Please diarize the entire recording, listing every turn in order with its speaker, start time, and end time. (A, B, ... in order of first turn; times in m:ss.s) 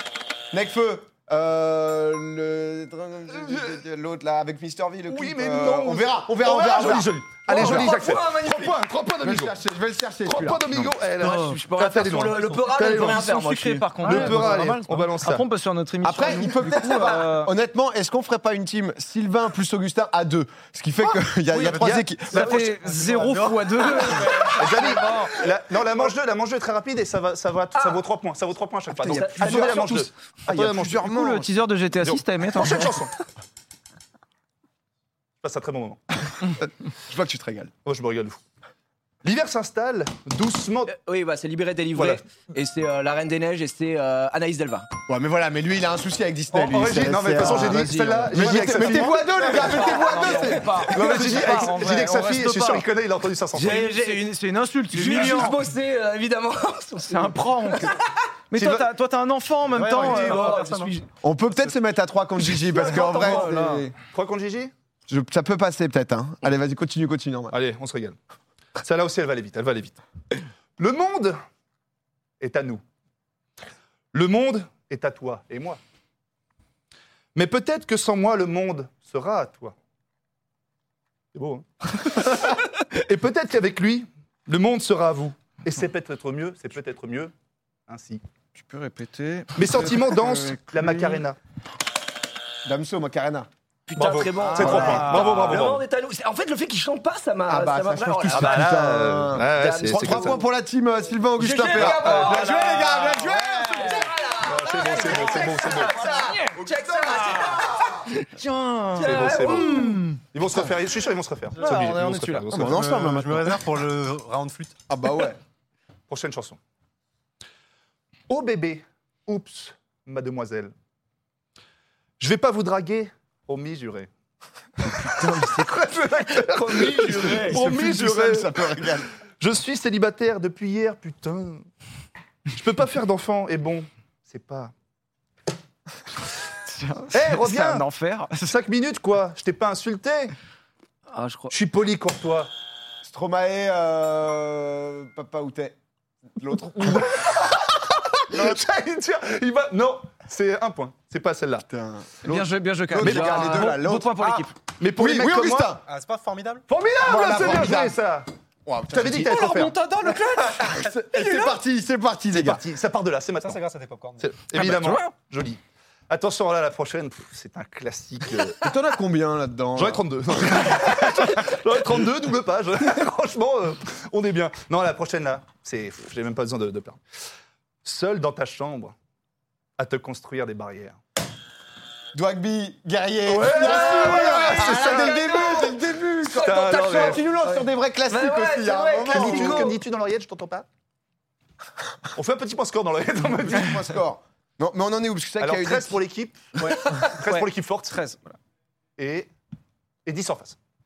0:00.5-0:07.9 A
0:05.1-0:09.6 B
0:07.5-0:08.8 C
0:09.2-0:10.9 A
0:10.3-0:13.2 B
0:11.2-0:14.3 C
0:11.2-0:11.6 D
0:12.8-0:17.5 D
0:14.0-0:15.5 B
0:16.0-0:22.6 A
0:21.6-0:22.0 E
0:21.7-0:23.5 B
0:22.3-0:25.4 D
0:23.0-0:23.6 E
0:24.3-0:24.6 C
0:24.3-0:31.1 B
0:27.7-0:28.0 C
0:29.0-0:30.1 C
0:29.0-0:31.5 A
0:31.0-0:33.0 D
0:32.0-0:33.1 B
0:35.4-0:36.0 B
0:37.1-0:37.7 A
0:37.9-0:38.4 B
0:39.2-0:40.9 B
0:40.9-0:44.9 C
0:42.0-0:42.2 B
0:45.1-0:51.7 A
0:46.5-0:49.8 B
0:47.4-0:50.8 C
0:49.5-0:52.8 D
0:50.8-0:54.0 B
0:53.5-0:54.3 C
0:53.6-0:55.6 D
0:54.9-0:58.2 C
0:57.1-0:58.0 D
0:58.5-1:00.6 D
0:58.6-0:58.8 B
0:59.7-1:00.9 E
1:00.0-1:01.1 C
1:01.2-1:03.9 A
1:02.8-1:03.4 C
1:02.8-1:03.9 D
1:03.1-1:03.4 B
1:04.1-1:04.7 B
1:05.1-1:07.6 A
1:07.5-1:08.2 B
1:08.8-1:10.0 B
1:10.8-1:11.4 B
1:12.4-1:12.8 B
1:14.1-1:15.8 B
1:17.4-1:19.8 B
1:21.4-1:27.3 B
1:27.9-1:28.2 B
1:28.6-1:30.4 D
1:29.6-1:31.4 B
1:30.1-1:30.6 A
1:32.6-1:33.5 A
1:33.9-1:38.8 C
1:34.0-1:35.8 B
1:34.4-1:35.6 D
1:34.6-1:35.0 A
1:37.5-1:44.1 A
1:38.3-1:40.4 B
1:39.4-1:40.4 C
1:41.4-1:48.3 C
1:41.7-1:43.0 B
1:42.7-1:44.1 D
1:44.4-1:46.0 B
1:45.2-1:46.6 D
1:46.6-1:48.0 A
1:47.1-1:47.6 D
1:48.3-1:50.2 D
1:48.9-1:50.0 C
1:49.0-1:52.8 B
1:51.6-1:52.5 D
1:52.5-1:53.6 A
1:52.5-1:54.7 E
1:54.9-1:55.4 A
1:56.1-1:56.6 B
1:58.3-2:00.7 B
2:02.2-2:04.1 B
2:05.0-2:11.6 B
2:05.2-2:05.7 C
2:06.4-2:07.6 C
2:07.0-2:09.1 A
2:12.5-2:14.7 B
2:16.7-2:18.5 D
2:17.1-2:17.9 B
2:18.4-2:20.3 B
2:21.1-2:21.5 C
2:21.5-2:22.5 B
2:23.0-2:25.8 A
2:26.4-2:27.4 A
2:26.7-2:31.6 B
2:28.3-2:28.6 A
2:31.7-2:34.4 A
2:32.2-2:34.5 D
2:33.0-2:33.8 B
2:34.8-2:35.8 B
2:35.0-2:35.8 A
2:35.8-2:36.6 E
2:36.7-2:38.3 B
2:37.0-2:38.0 A
2:38.7-2:39.4 A
2:38.9-2:39.8 B
2:39.2-2:41.6 D
2:40.0-2:42.6 A
2:42.3-2:43.6 B
2:43.4-2:44.3 E
2:44.2-2:48.6 B
2:44.6-2:45.0 D
2:48.6-2:50.8 A
2:49.8-2:57.0 B
2:57.8-2:58.9 B
2:59.8-3:01.0 B
3:02.1-3:09.8 A
3:03.3-3:05.4 B
3:03.5-3:09.8 C
3:06.4-3:07.2 B
3:09.0-3:10.7 B
3:12.2-3:14.0 B
3:13.4-3:16.0 A
3:15.4-3:18.0 B
3:16.6-3:18.2 D
3:19.0-3:19.3 B
3:20.0-3:20.6 B